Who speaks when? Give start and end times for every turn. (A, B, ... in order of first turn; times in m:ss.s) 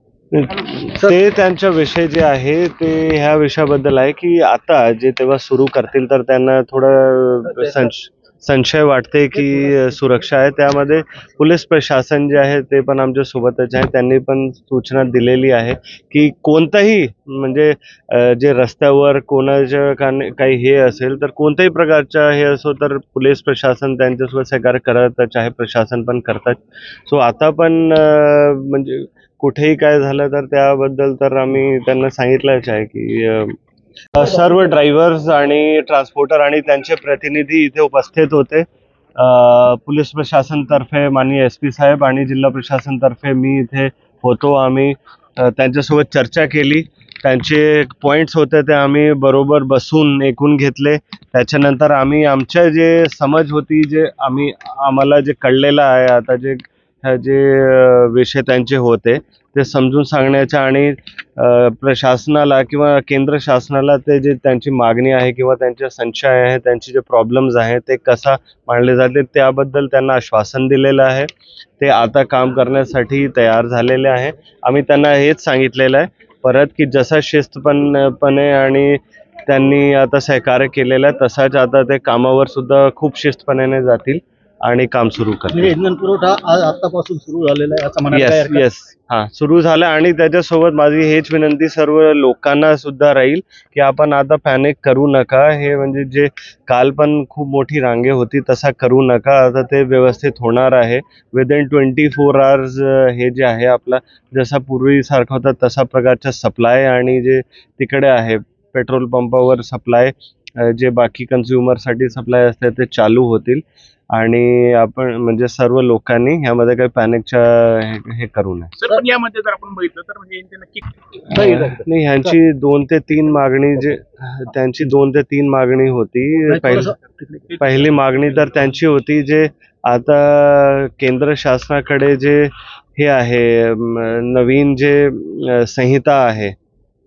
0:00.3-0:33.6 A
0:34.1-0:38.6 A
0:39.2-1:25.7 A
1:25.5-1:28.6 B
1:28.1-1:58.7 A
1:58.8-2:00.8 C
2:01.3-2:06.9 A
2:01.3-2:01.8 B
2:06.5-2:07.4 B
2:07.6-2:16.5 A